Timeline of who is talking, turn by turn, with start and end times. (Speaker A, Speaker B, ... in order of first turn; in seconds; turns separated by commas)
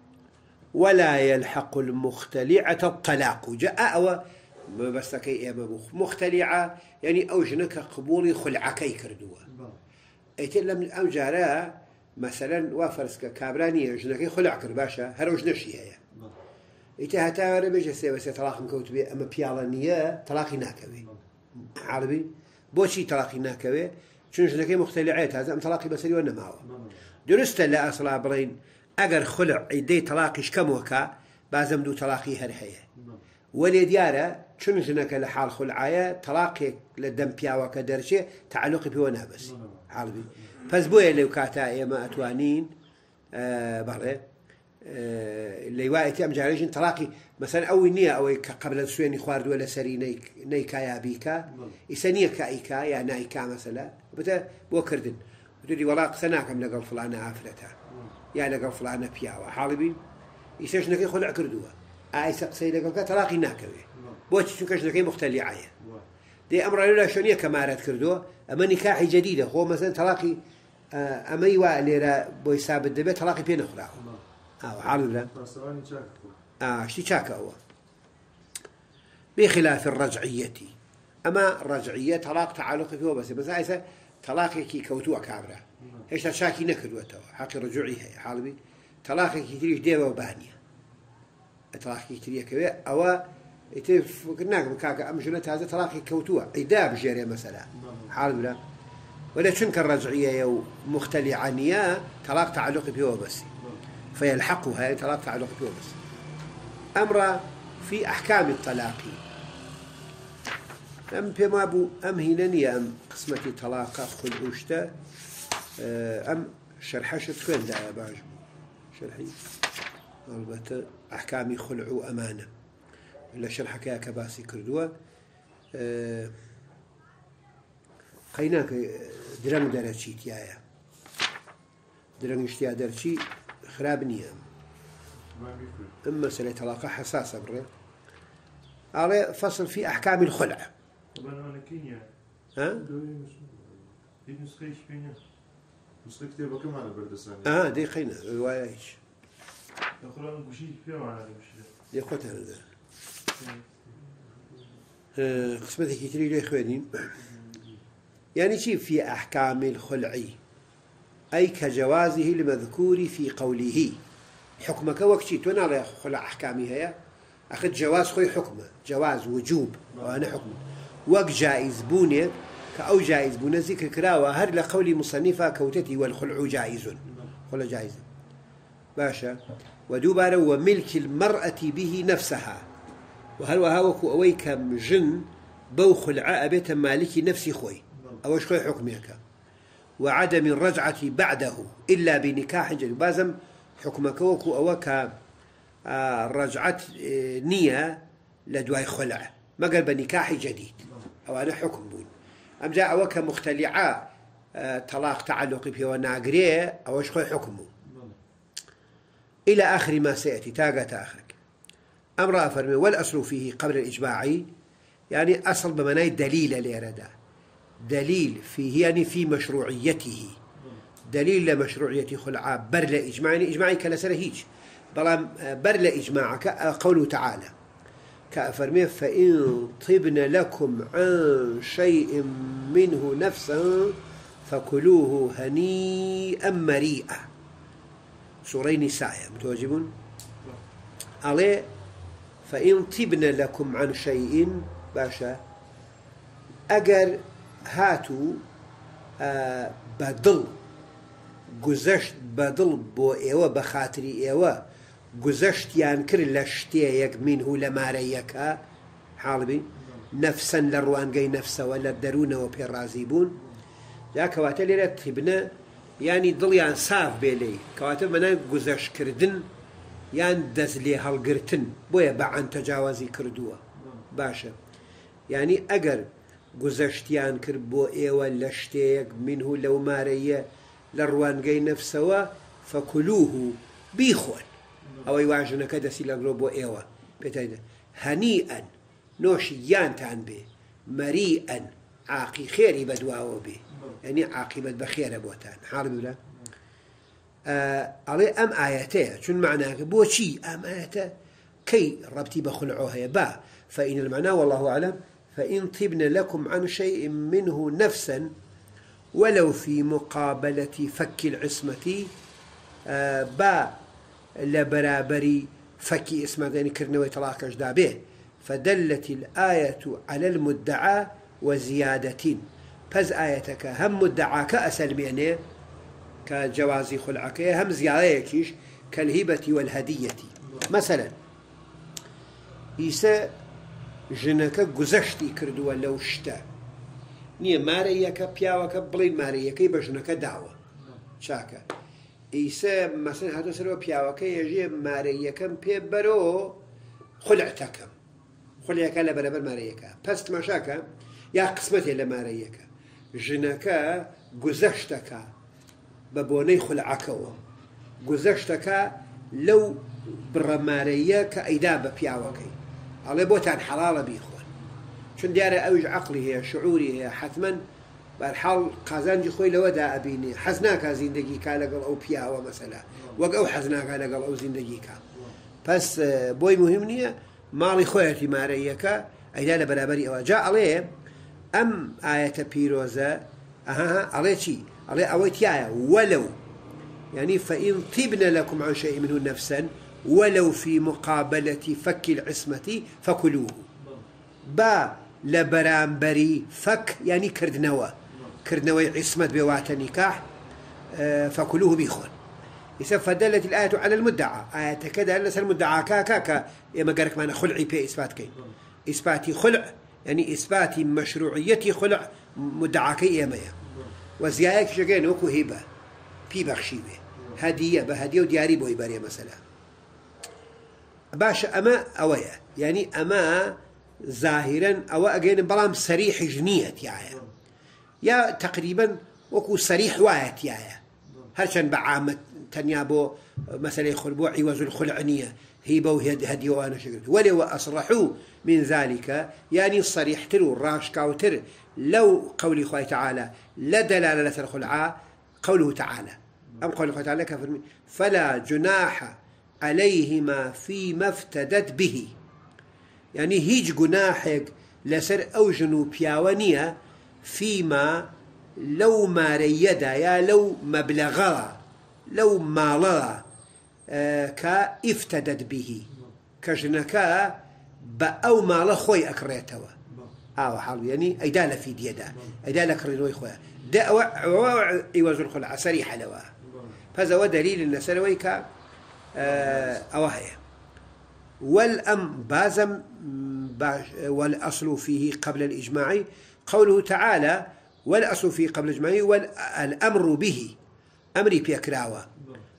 Speaker A: 0.7-9.4, Speaker B: 9.5-9.8, Speaker A: 10.4-16.0, Speaker A: 17.0-21.1, Speaker A: 21.6-26.6, Speaker B: 26.6-27.0, Speaker A: 27.3-32.9, Speaker B: 33.0-33.2, Speaker A: 33.5-42.7, Speaker B: 39.4-39.9, Speaker A: 43.3-44.2, Speaker A: 44.8-57.8, Speaker B: 51.5-51.8, Speaker B: 57.9-58.1, Speaker A: 58.3-60.0, Speaker A: 60.6-65.7, Speaker B: 63.9-64.2, Speaker B: 65.8-66.1, Speaker A: 66.5-70.4, Speaker A: 70.9-74.0, Speaker B: 74.0-74.2, Speaker A: 74.6-75.3, Speaker B: 75.2-76.4, Speaker A: 76.6-77.6, Speaker A: 79.4-80.7, Speaker A: 81.2-90.6, Speaker B: 85.8-86.1, Speaker A: 91.7-98.6, Speaker B: 97.7-98.2, Speaker A: 99.3-103.5, Speaker A: 104.2-106.0, Speaker A: 107.0-109.2, Speaker A: 111.1-115.0, Speaker A: 115.8-118.4, Speaker A: 118.9-119.4, Speaker A: 120.3-122.5, Speaker A: 123.3-124.9, Speaker A: 125.7-126.3, Speaker A: 128.3-130.6, Speaker A: 132.2-134.4, Speaker B: 135.3-136.0, Speaker A: 136.0-137.7, Speaker A: 138.9-140.7, Speaker B: 141.1-142.1, Speaker A: 142.6-142.8, Speaker B: 142.7-145.2, Speaker B: 146.0-147.7, Speaker A: 147.4-149.0, Speaker B: 150.0-151.7, Speaker A: 151.9-152.6, Speaker B: 153.4-153.9, Speaker A: 155.2-157.1, Speaker A: 158.4-160.4, Speaker A: 161.3-164.0, Speaker A: 164.6-167.0, Speaker A: 167.5-178.0, Speaker B: 169.9-170.5, Speaker A: 179.0-182.7, Speaker A: 183.4-189.2, Speaker B: 187.9-188.2, Speaker A: 190.0-195.2, Speaker A: 195.9-202.1, Speaker A: 202.6-207.7, Speaker B: 207.8-208.2, Speaker A: 209.5-211.4, Speaker A: 212.2-214.5, Speaker A: 215.1-217.1, Speaker A: 217.8-220.4, Speaker A: 221.1-227.5, Speaker A: 228.3-237.3, Speaker A: 238.4-239.9, Speaker A: 241.2-241.7, Speaker A: 242.4-245.4, Speaker A: 246.7-248.4, Speaker A: 249.2-250.6, Speaker A: 251.5-254.6, Speaker A: 255.1-258.6, Speaker A: 259.2-263.4, Speaker B: 259.8-260.1, Speaker A: 264.1-269.5, Speaker A: 270.1-274.6, Speaker B: 273.8-274.1, Speaker A: 275.3-284.5, Speaker A: 285.1-296.2, Speaker B: 293.7-294.0, Speaker A: 297.5-301.1, Speaker A: 301.6-308.3, Speaker A: 309.1-312.1, Speaker A: 312.9-313.8, Speaker A: 314.4-325.4, Speaker A: 326.3-331.1, Speaker A: 332.8-333.3, Speaker A: 334.1-336.5, Speaker A: 337.4-340.6, Speaker A: 341.2-341.6, Speaker A: 342.3-346.6, Speaker A: 347.2-347.9, Speaker A: 348.6-355.3, Speaker A: 356.1-357.4, Speaker A: 358.0-362.6, Speaker A: 363.1-364.5, Speaker A: 365.2-367.6, Speaker A: 368.2-375.0, Speaker B: 372.9-373.2, Speaker A: 375.6-380.9, Speaker A: 381.5-386.4, Speaker A: 387.1-393.7, Speaker B: 393.8-394.1, Speaker A: 394.4-400.3, Speaker B: 398.1-398.4, Speaker A: 400.9-402.1, Speaker A: 402.8-408.4, Speaker A: 408.9-413.6, Speaker B: 413.6-413.9, Speaker A: 414.2-415.6, Speaker A: 416.3-419.4, Speaker A: 421.1-427.2, Speaker A: 428.0-430.8, Speaker A: 431.3-452.1, Speaker A: 453.1-463.2, Speaker A: 463.9-465.9, Speaker A: 466.4-469.8, Speaker B: 469.9-470.1, Speaker A: 470.4-476.3, Speaker B: 476.4-476.8, Speaker A: 476.9-478.5, Speaker A: 479.1-480.4, Speaker B: 479.2-479.8, Speaker A: 481.4-490.6, Speaker A: 491.1-492.1